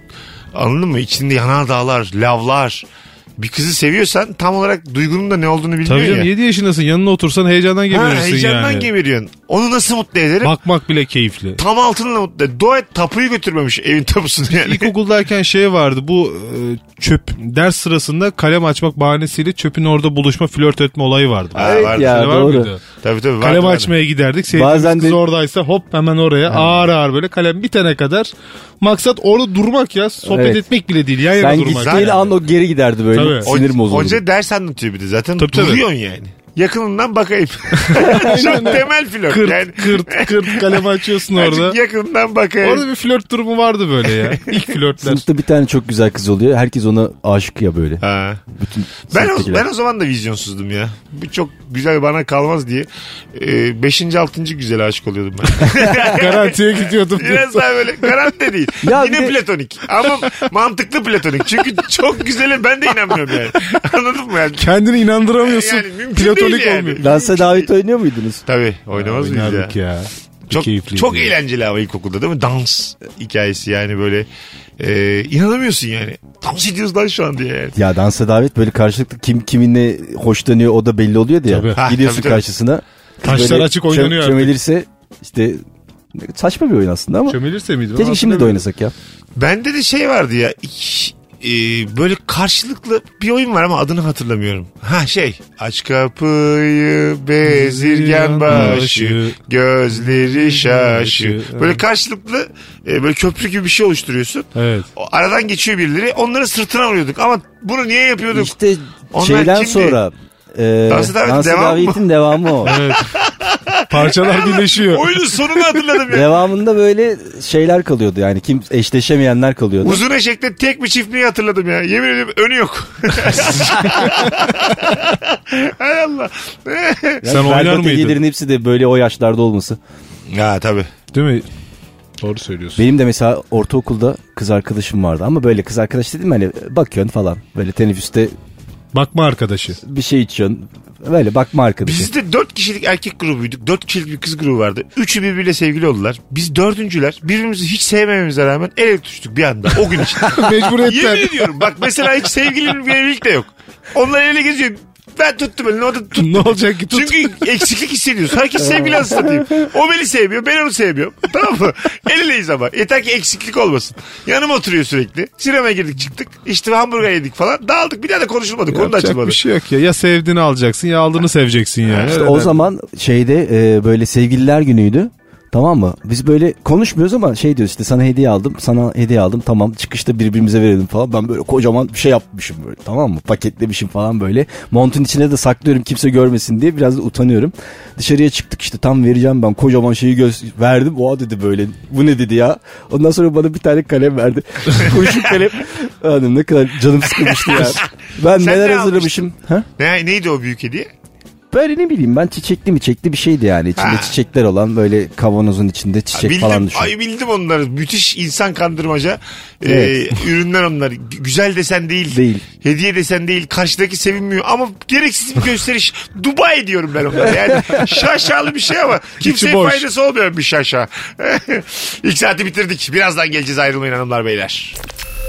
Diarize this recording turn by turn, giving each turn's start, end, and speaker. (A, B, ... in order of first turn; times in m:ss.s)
0:00.5-0:06.3 A
0:05.8-0:08.9 B
0:07.9-0:10.5 A
0:10.4-0:11.6 B
0:11.6-0:14.9 A
0:14.5-0:22.8 B
0:21.5-0:22.2 A
0:21.6-0:22.7 C
0:23.0-0:23.9 A
0:23.4-0:32.3 B
0:24.5-0:25.2 C
0:26.5-0:26.8 C
0:30.2-0:30.6 C
0:31.4-0:34.2 C
0:31.8-0:32.1 A
0:33.1-0:33.5 B
0:33.4-0:42.9 A
0:35.4-0:35.8 B
0:37.8-0:41.8 B
0:38.0-0:38.5 C
0:42.6-0:45.2 B
0:44.2-0:44.5 A
0:45.0-0:49.6 C
0:48.0-0:48.4 A
0:49.1-1:04.7 A
0:55.7-0:57.6 B
0:58.8-0:59.4 C
1:04.6-1:07.0 B
1:05.4-1:07.7 A
1:07.0-1:08.4 C
1:08.4-1:09.8 A
1:09.0-1:11.3 B
1:10.5-1:17.7 A
1:17.7-1:25.6 C
1:21.5-1:21.8 B
1:21.7-1:22.5 A
1:23.2-1:24.6 B
1:26.1-1:27.4 C
1:27.3-1:28.6 B
1:27.9-1:28.9 C
1:29.4-1:48.6 A
1:37.4-1:39.4 B
1:40.0-1:41.8 B
1:44.5-1:44.9 B
1:48.3-1:52.7 C
1:49.1-1:50.0 A
1:50.9-1:56.4 A
1:52.6-1:53.2 B
1:53.9-1:55.2 B
1:56.1-2:00.0 C
1:59.8-2:07.2 A
2:07.2-2:09.8 C
2:07.2-2:08.2 B
2:10.3-2:10.9 A
2:11.1-2:11.5 B
2:12.2-2:12.8 B
2:12.7-2:18.3 C
2:18.9-2:19.8 B
2:19.8-2:22.1 C
2:21.8-2:49.4 A
2:30.2-2:31.6 B
2:36.1-2:37.5 B
2:48.7-2:52.6 B
2:51.8-2:52.1 A
2:52.0-3:19.6 C
3:14.8-3:15.4 A
3:17.2-3:20.9 A
3:21.5-3:26.9 C
3:23.8-3:24.2 A
3:26.1-3:44.8 A
3:29.6-3:30.0 C
3:32.1-3:32.4 C
3:39.2-3:39.8 B